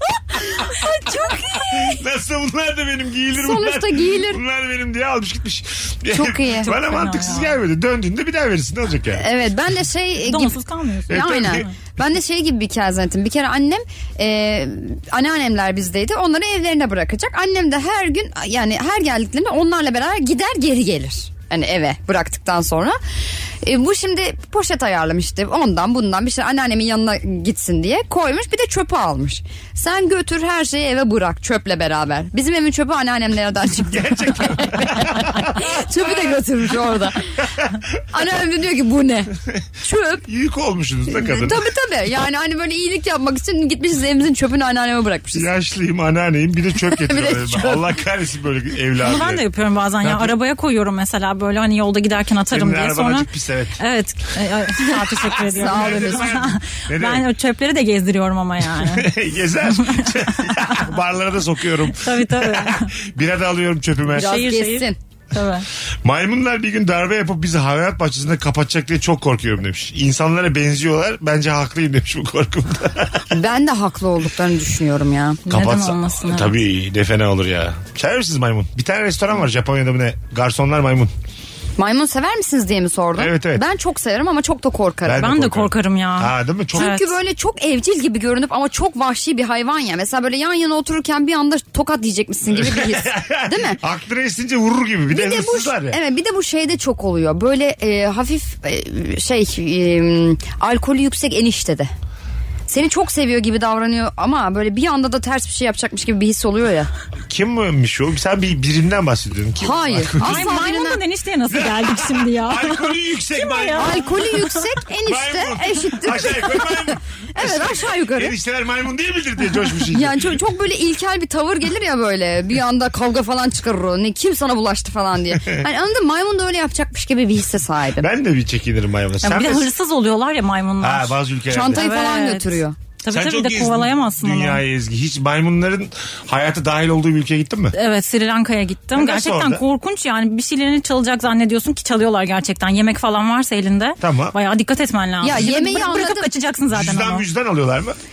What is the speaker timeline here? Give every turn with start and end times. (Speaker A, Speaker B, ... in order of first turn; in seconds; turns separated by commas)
Speaker A: 0.8-1.6, Speaker B: 1.5-9.2, Speaker A: 3.3-4.4, Speaker A: 6.1-6.7, Speaker C: 6.7-7.5, Speaker A: 9.2-10.5, Speaker C: 10.2-11.7, Speaker B: 11.1-11.7, Speaker A: 11.1-23.0, Speaker A: 23.6-37.3, Speaker B: 33.9-35.8, Speaker A: 38.1-40.2, Speaker B: 40.2-41.7, Speaker A: 41.1-45.5, Speaker B: 45.3-49.4, Speaker A: 46.9-47.9, Speaker C: 49.0-53.3, Speaker B: 50.0-50.3, Speaker B: 52.5-53.8, Speaker C: 53.8-59.1, Speaker B: 55.4-57.2, Speaker A: 55.5-56.3, Speaker B: 58.8-64.4, Speaker C: 59.8-60.8, Speaker C: 62.0-62.9, Speaker A: 64.1-65.0, Speaker C: 64.2-65.7, Speaker B: 66.0-73.2, Speaker A: 73.3-75.4, Speaker C: 75.5-76.5, Speaker B: 75.5-81.1, Speaker A: 81.8-85.3, Speaker B: 83.2-83.6, Speaker B: 85.0-86.9, Speaker C: 85.2-87.1, Speaker A: 86.8-93.8, Speaker B: 92.5-96.0, Speaker A: 95.1-101.9, Speaker A: 102.7-106.9, Speaker B: 107.3-110.5, Speaker A: 109.6-111.0, Speaker C: 110.2-114.6, Speaker B: 111.5-114.1, Speaker A: 113.8-118.3, Speaker B: 115.0-120.3, Speaker A: 119.9-128.1, Speaker B: 128.0-129.7, Speaker C: 129.2-131.2, Speaker B: 130.8-131.9, Speaker A: 131.5-132.8, Speaker C: 131.7-134.6, Speaker B: 133.1-137.8, Speaker C: 137.7-147.2, Speaker B: 138.9-139.6, Speaker B: 144.0-144.3, Speaker A: 145.2-146.3, Speaker B: 146.7-148.0